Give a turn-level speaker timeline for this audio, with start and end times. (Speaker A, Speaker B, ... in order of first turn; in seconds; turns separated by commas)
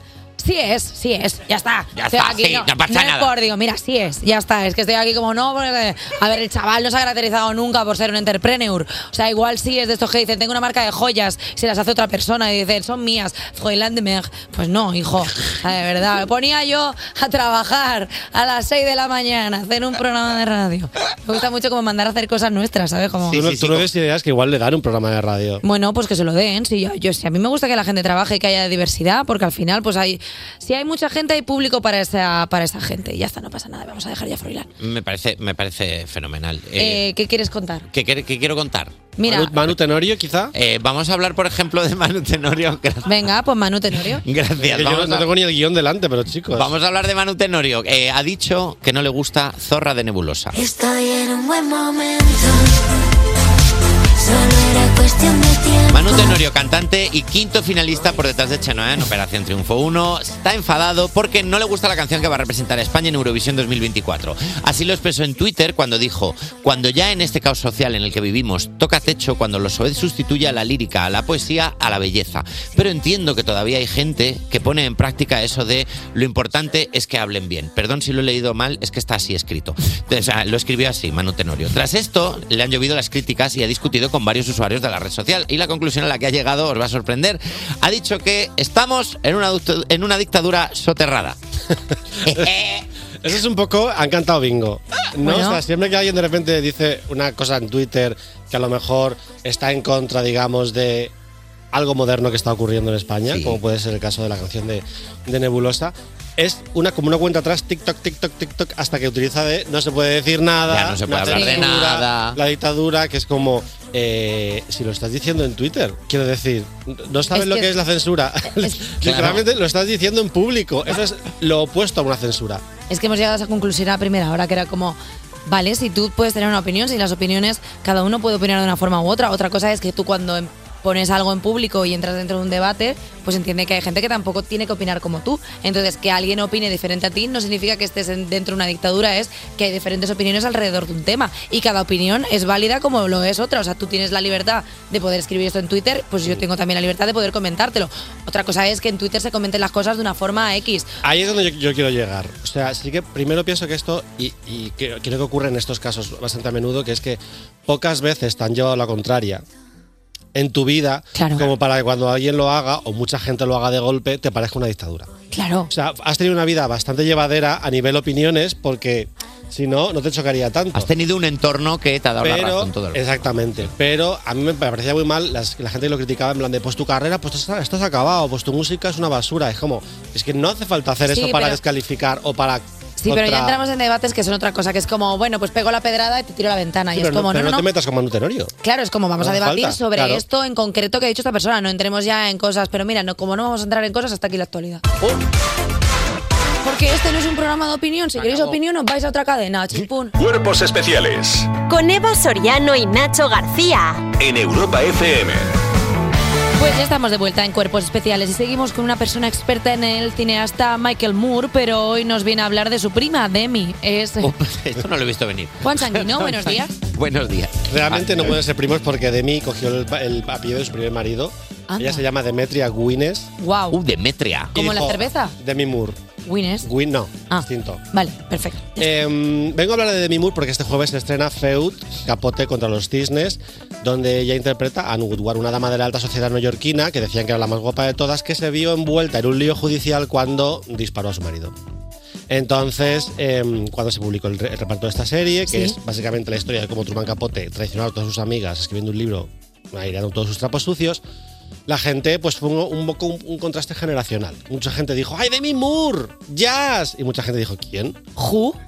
Speaker A: 0.4-23.4, Speaker B: 1.9-3.3, Speaker B: 23.3-23.9, Speaker C: 23.3-25.6, Speaker A: 25.6-34.7, Speaker B: 34.8-37.0, Speaker A: 36.8-37.9, Speaker B: 37.9-39.1, Speaker A: 39.2-39.5, Speaker C: 39.2-40.5, Speaker B: 40.5-43.1, Speaker A: 43.0-44.2, Speaker B: 44.2-45.3, Speaker C: 44.6-46.7, Speaker B: 46.5-50.6, Speaker D: 50.5-52.8, Speaker D: 54.2-56.4, Speaker B: 55.9-91.4, Speaker B: 92.2-92.9, Speaker C: 93.2-101.1, Speaker A: 95.2-95.6, Speaker C: 101.7-122.6, Speaker B: 103.3-103.6, Speaker B: 110.7-112.4, Speaker A: 111.3-111.7, Speaker A: 117.3-117.7, Speaker B: 119.0-119.4, Speaker A: 122.9-150.9, Speaker C: 151.0-159.4, Speaker C: 160.3-165.1, Speaker A: 161.1-161.5, Speaker A: 165.3-165.7, Speaker C: 165.7-170.9, Speaker B: 170.7-173.0, Speaker C: 172.2-183.6, Speaker A: 181.1-181.6, Speaker A: 183.0-187.7, Speaker C: 186.9-188.5, Speaker A: 188.6-194.8, Speaker C: 189.2-190.2, Speaker A: 196.6-200.1, Speaker B: 198.2-198.5, Speaker E: 200.2-201.5, Speaker F: 201.7-204.0, Speaker E: 204.2-205.5, Speaker A: 206.6-214.3, Speaker B: 214.2-218.4, Speaker A: 215.6-216.7, Speaker C: 217.7-223.3, Speaker A: 221.7-222.0, Speaker A: 223.4-223.8, Speaker B: 223.7-224.6, Speaker A: 224.5-225.3, Speaker C: 224.5-226.0, Speaker A: 226.2-226.7, Speaker C: 226.6-227.8, Speaker A: 227.3-228.9, Speaker C: 228.8-241.5, Speaker C: 242.3-251.0, Speaker A: 245.5-245.8, Speaker C: 251.7-258.0, Speaker A: 258.2-258.6